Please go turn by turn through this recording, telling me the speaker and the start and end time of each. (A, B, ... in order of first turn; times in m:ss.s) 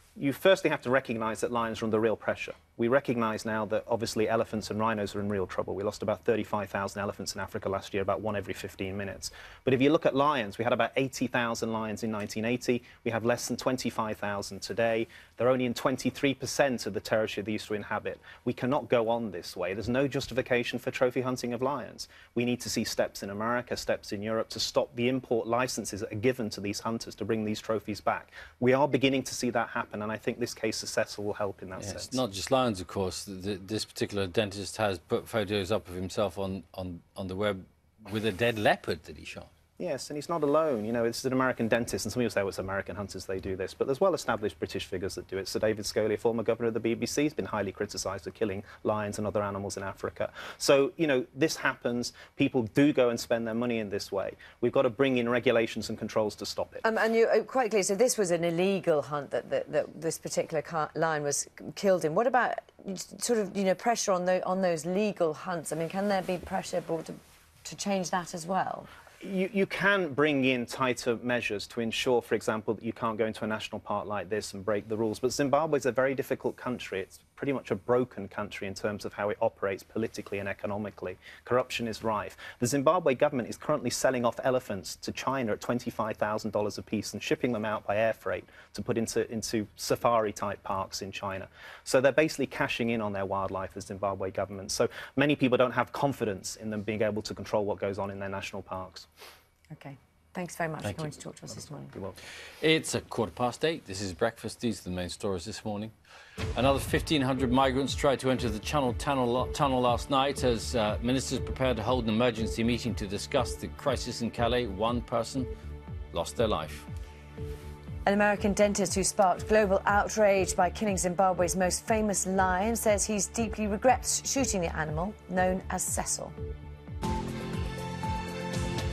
0:00.2-0:32.2 A
0:31.8-0:39.5 B
0:39.8-0:56.8 A
0:56.8-1:08.9 C
1:09.2-1:39.1 A
1:39.7-1:42.0 C
1:42.6-1:45.9 B
1:46.6-1:55.5 B
1:56.1-1:56.9 B
1:58.0-2:06.4 C